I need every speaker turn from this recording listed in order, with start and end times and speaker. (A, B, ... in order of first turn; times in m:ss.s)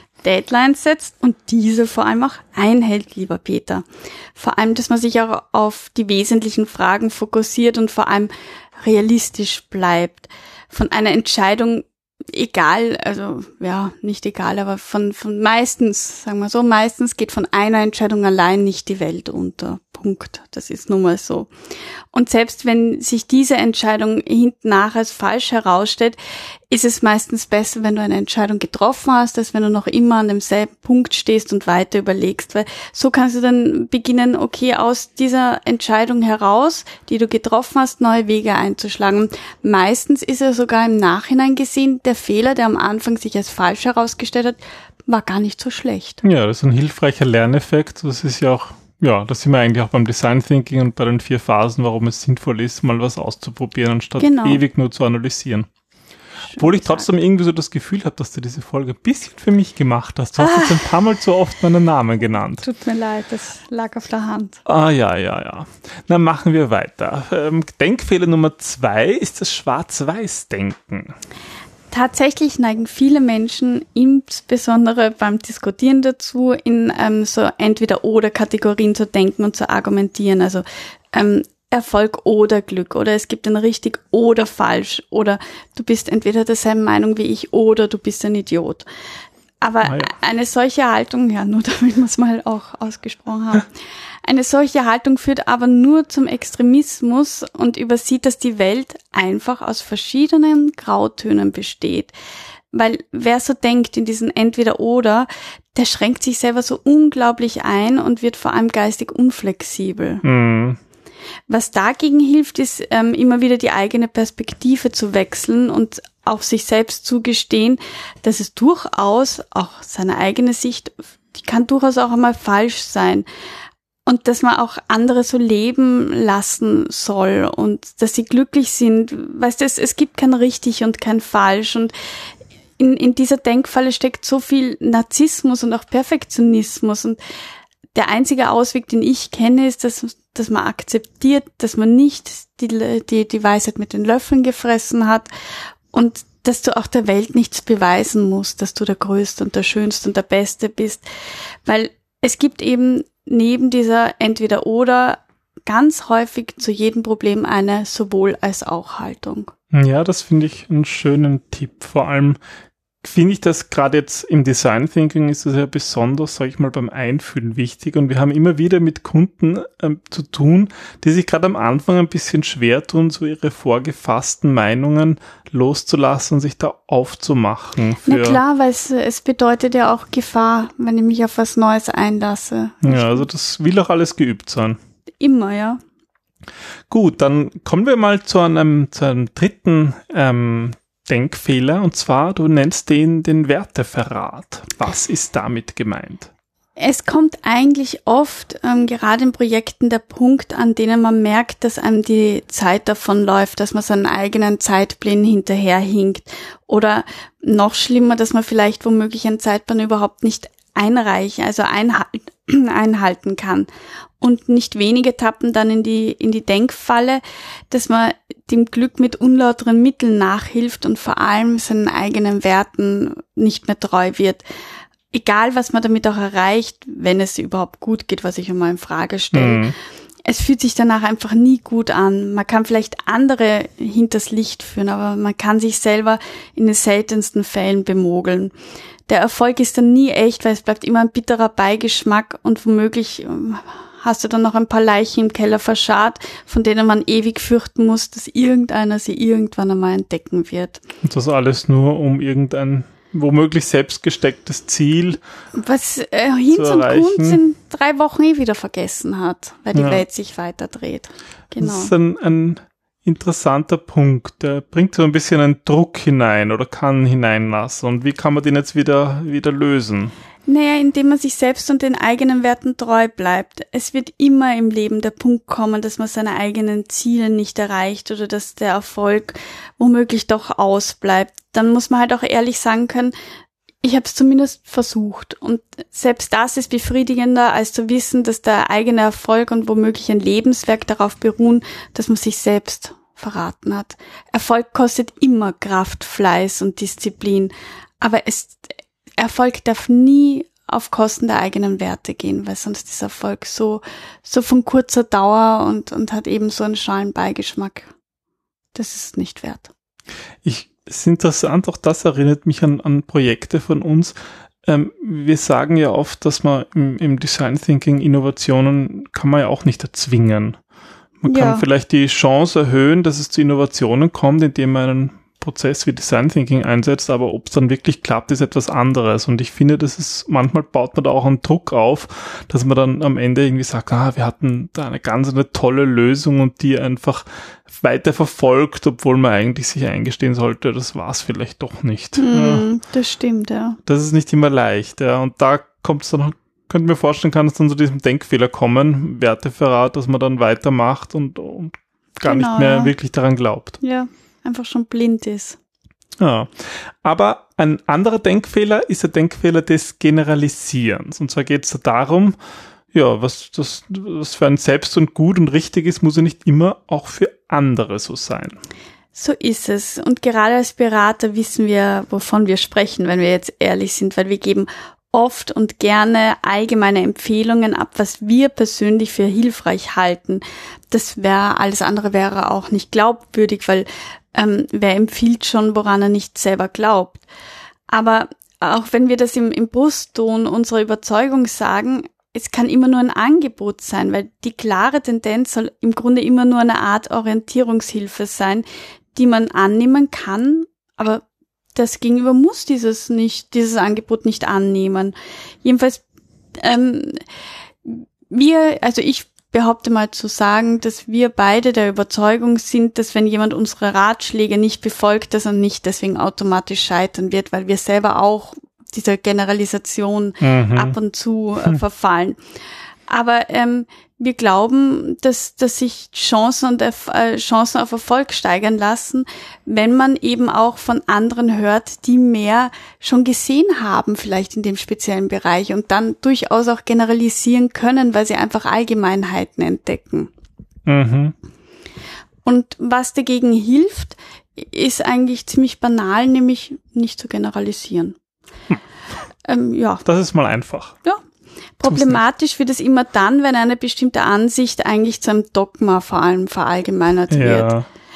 0:00.2-0:21.5 A
0:22.1-0:26.2 A
0:26.7-0:46.2 A
0:46.2-0:55.7 B
0:54.2-0:54.6 A
0:56.4-0:57.1 A
0:56.6-1:02.6 B
1:00.4-1:00.9 A
1:02.6-1:04.6 A
1:04.7-1:11.1 B
1:11.9-1:28.9 A
1:29.6-1:33.7 A
1:29.8-1:30.1 B
1:34.2-1:42.1 A
1:42.7-1:50.2 A
1:50.2-1:50.8 B
1:51.5-2:03.3 A
2:04.0-2:11.9 A
2:12.8-2:17.2 A
2:17.9-2:25.3 A
2:25.9-2:31.0 A
2:31.6-2:39.5 A
2:39.7-2:42.4 B
2:43.0-2:58.4 B
2:58.0-3:03.2 A
3:02.8-3:04.8 B
3:05.2-3:05.8 A
3:06.9-3:16.3 B
3:16.8-3:33.7 A
3:34.2-3:44.4 A
3:45.1-3:49.7 A
3:49.3-3:49.8 B
3:50.2-3:58.5 A
3:59.1-4:10.8 A
4:11.0-4:15.2 B
4:15.5-4:21.9 A
4:16.5-4:17.4 B
4:19.7-4:20.1 B
4:21.6-4:30.1 B
4:30.5-4:43.2 A
4:43.8-5:07.9 A
5:08.7-5:09.7 A
5:10.4-5:14.2 B
5:14.7-5:20.6 B
5:21.2-5:42.7 B
5:21.3-5:21.7 A
5:42.2-5:43.8 A
5:43.9-5:53.8 B
5:52.2-5:52.9 A
5:53.8-5:55.6 A
5:56.2-6:02.4 B
6:02.9-6:08.6 B
6:09.1-6:27.2 A
6:27.9-6:41.2 A
6:41.8-6:46.0 A
6:46.6-6:47.2 A
6:47.8-7:02.4 A
7:00.4-7:01.0 B
7:03.1-7:20.3 A
7:20.9-7:21.4 B
7:22.4-7:28.2 A
7:29.5-7:30.0 A
7:30.1-7:31.0 B
7:31.8-7:37.8 A
7:31.8-7:32.2 B
7:37.3-7:37.9 B